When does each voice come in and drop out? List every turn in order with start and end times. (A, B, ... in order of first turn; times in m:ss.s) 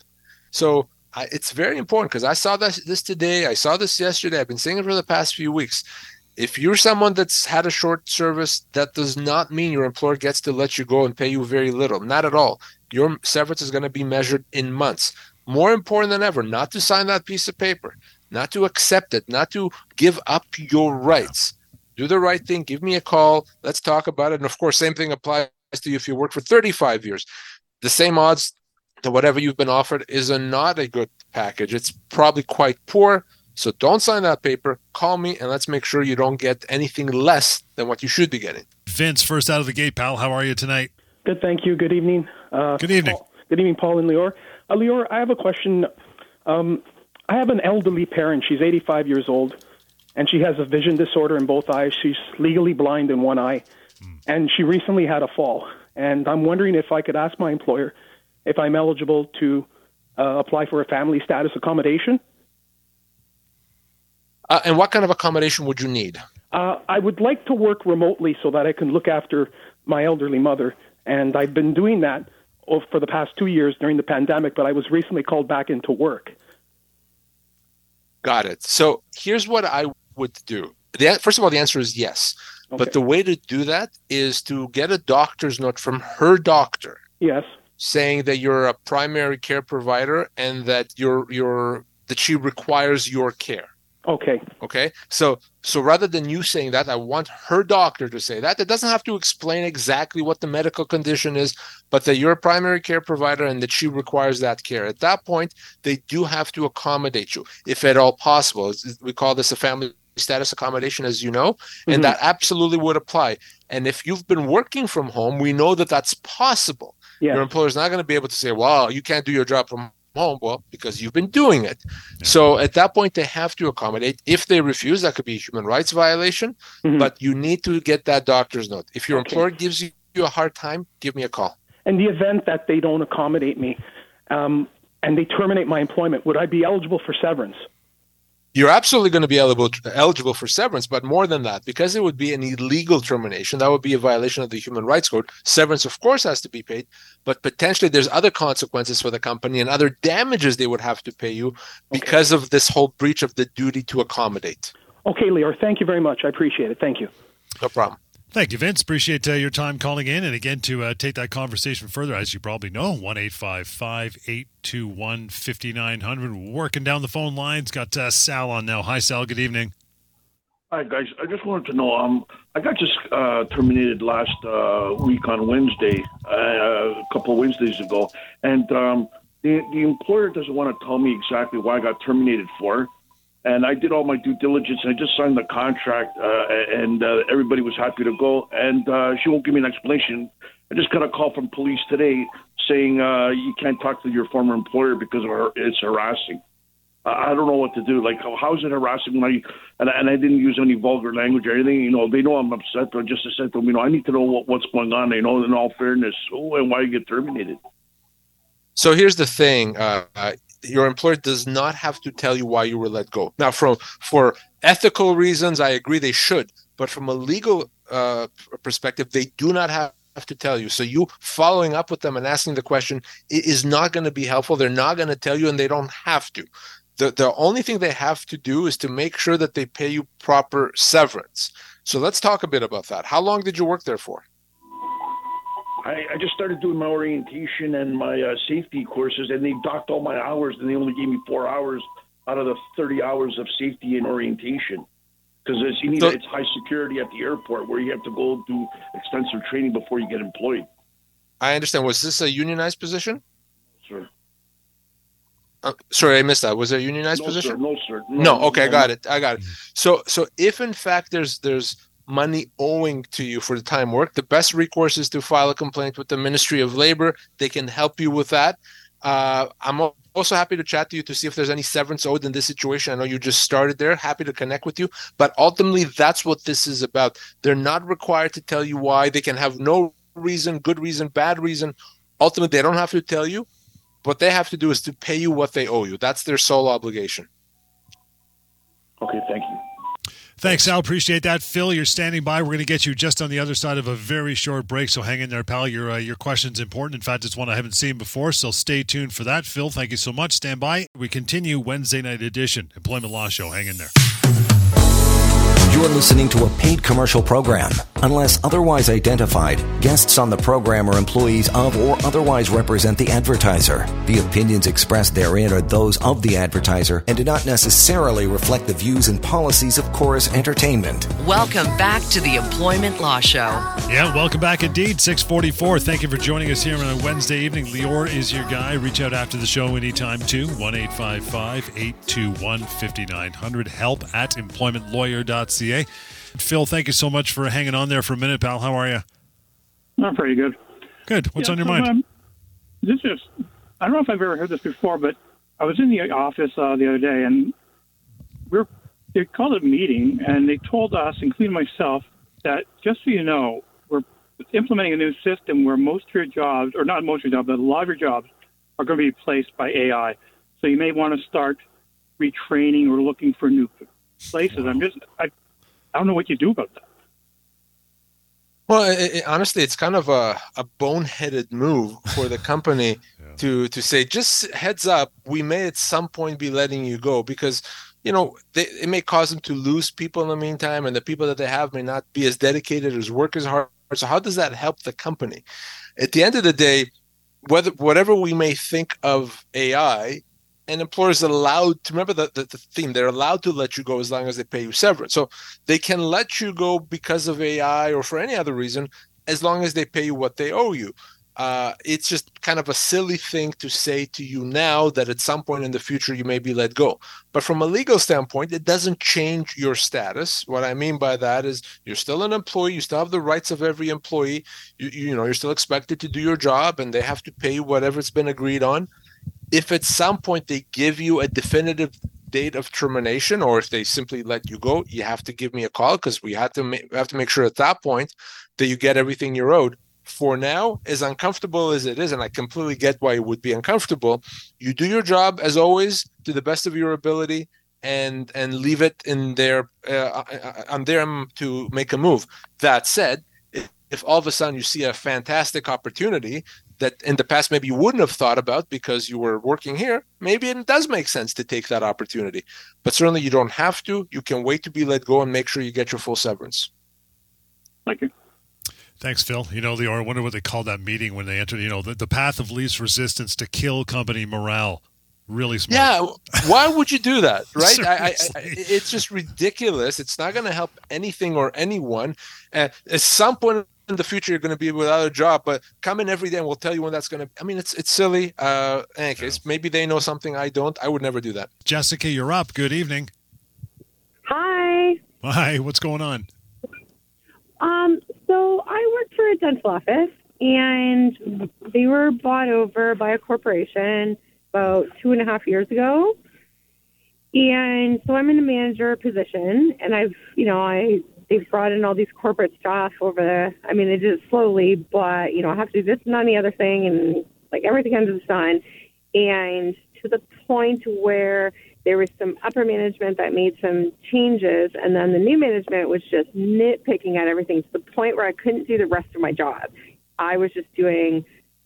0:00.5-0:05.8 A
0:06.4-0:27.3 A
0:27.8-0:38.6 A
0:38.9-0:40.9 B
0:41.2-0:45.9 C
0:42.8-0:43.2 B
0:46.5-0:49.6 C
0:50.2-0:53.7 C
0:54.3-1:02.2 C
1:04.5-1:06.2 A
1:06.5-1:16.4 C
1:18.2-1:27.0 A
1:27.2-1:27.5 C
1:27.8-1:33.7 A
1:34.1-1:34.4 C
1:34.6-2:11.6 A
1:51.9-1:52.2 C
1:57.2-1:57.5 C
2:06.8-2:07.1 C
2:09.1-2:09.4 C
2:11.9-2:13.8 C
2:14.3-2:17.6 C
2:18.5-2:34.7 A
2:31.9-2:32.2 C
2:35.0-2:37.1 C
2:37.6-2:38.0 A
2:38.3-2:49.7 B
2:50.7-3:02.9 D
3:03.4-3:16.4 D
3:17.0-3:27.6 D
3:28.8-3:54.2 A
3:55.8-4:04.9 D
4:05.4-4:10.7 D
4:11.4-4:13.2 A
4:13.8-4:14.1 D
4:15.6-4:17.6 A
4:17.2-4:18.9 D
4:18.2-4:43.5 A
4:44.0-4:47.3 A
4:49.0-4:49.6 D
4:50.4-5:03.9 B
5:05.7-5:21.1 E
5:21.2-5:23.7 F
5:23.9-5:39.0 B
5:40.0-5:40.6 G
5:41.1-5:41.9 B
5:41.4-5:42.0 G
5:42.8-5:43.3 G
5:43.8-5:47.6 G
5:48.5-6:01.6 G
6:02.2-6:05.3 G
6:04.5-6:04.8 B
6:05.9-6:06.8 G
6:08.7-6:25.4 A
6:26.0-6:26.9 A
6:27.4-6:58.9 A
6:59.5-7:36.7 A
7:37.9-7:38.1 G
7:39.0-7:46.5 B
7:45.7-8:01.5 A
7:47.6-7:48.6 B
8:01.7-8:03.1 B
8:04.3-8:05.0 H
8:05.2-8:06.3 B
8:07.6-8:16.2 H
8:17.3-8:28.6 H
8:29.1-8:41.2 H